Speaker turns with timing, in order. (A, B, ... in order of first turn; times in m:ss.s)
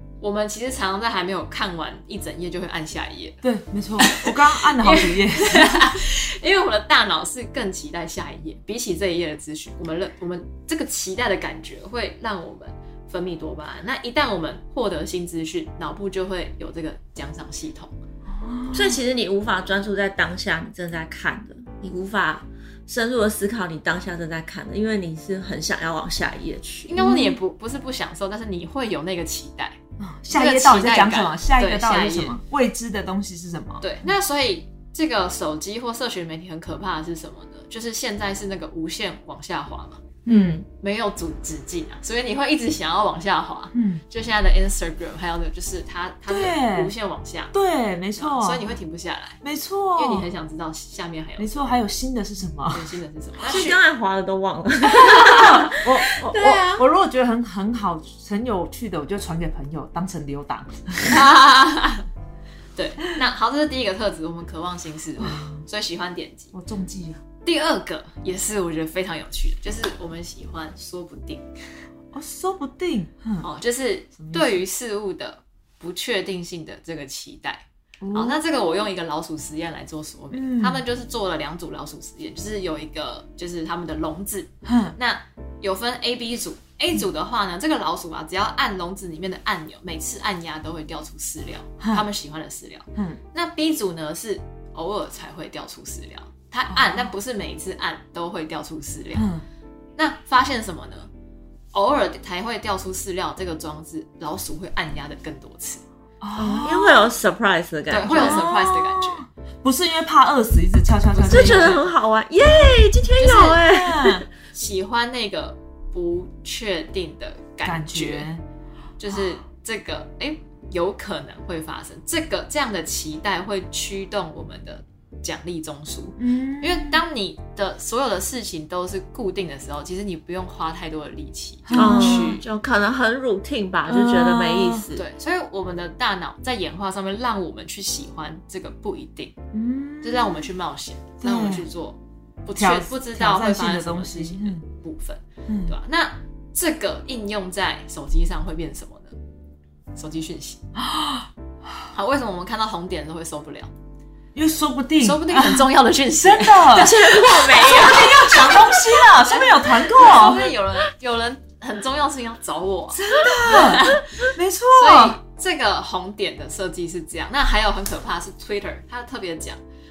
0:00.2-0:03.4 A
0:03.4-0:05.9 B
0:04.0-0:17.9 A
0:18.3-0:19.0 B
0:18.7-0:26.9 C
0:26.9-0:32.4 A
0:27.0-0:27.4 B
0:30.0-0:33.8 B
0:33.8-0:40.0 A
0:40.2-0:40.6 B
0:40.2-0:40.6 C
0:40.8-0:47.5 A
0:43.7-0:44.0 B
0:46.3-0:46.9 B
0:47.5-0:48.7 B
0:48.1-0:49.4 A
0:49.4-0:50.3 B
0:49.9-0:51.7 A
0:51.4-0:52.9 B
0:52.7-0:53.8 A
0:53.4-0:56.8 C
0:55.1-1:01.2 B
1:01.1-1:02.0 A
1:02.8-1:06.5 A
1:05.2-1:05.6 B
1:06.5-1:07.2 B
1:07.4-1:11.6 A
1:12.1-1:13.5 B
1:13.4-1:39.3 A
1:14.2-1:14.6 B
1:18.0-1:18.4 B
1:20.3-1:20.8 B
1:24.6-1:25.0 B
1:31.8-1:32.0 B
1:36.7-1:37.0 B
1:39.1-1:39.4 B
1:40.0-1:41.1 A
1:41.7-1:45.8 A
1:46.2-1:47.1 B
1:46.4-1:48.4 C
1:47.9-1:49.2 A
1:48.0-1:51.8 B
1:51.1-1:51.9 A
1:51.3-1:54.2 C
1:53.2-1:53.7 A
1:53.6-1:54.2 B
1:54.5-1:58.3 A
1:57.6-1:58.4 B
1:59.0-2:12.4 A
2:06.2-2:07.0 B
2:11.7-2:12.4 B
2:11.7-2:15.0 C
2:13.9-2:14.9 B
2:14.9-2:19.4 A
2:19.5-2:20.5 B
2:20.0-2:29.2 A
2:21.2-2:21.6 B
2:22.6-2:24.6 B
2:25.5-2:25.7 B
2:29.9-2:30.6 A
2:30.8-2:31.3 B
2:31.9-2:33.7 A
2:34.3-2:37.0 B
2:35.0-2:49.6 A
2:36.8-2:38.6 C
2:37.6-2:40.5 B
2:42.9-2:45.2 B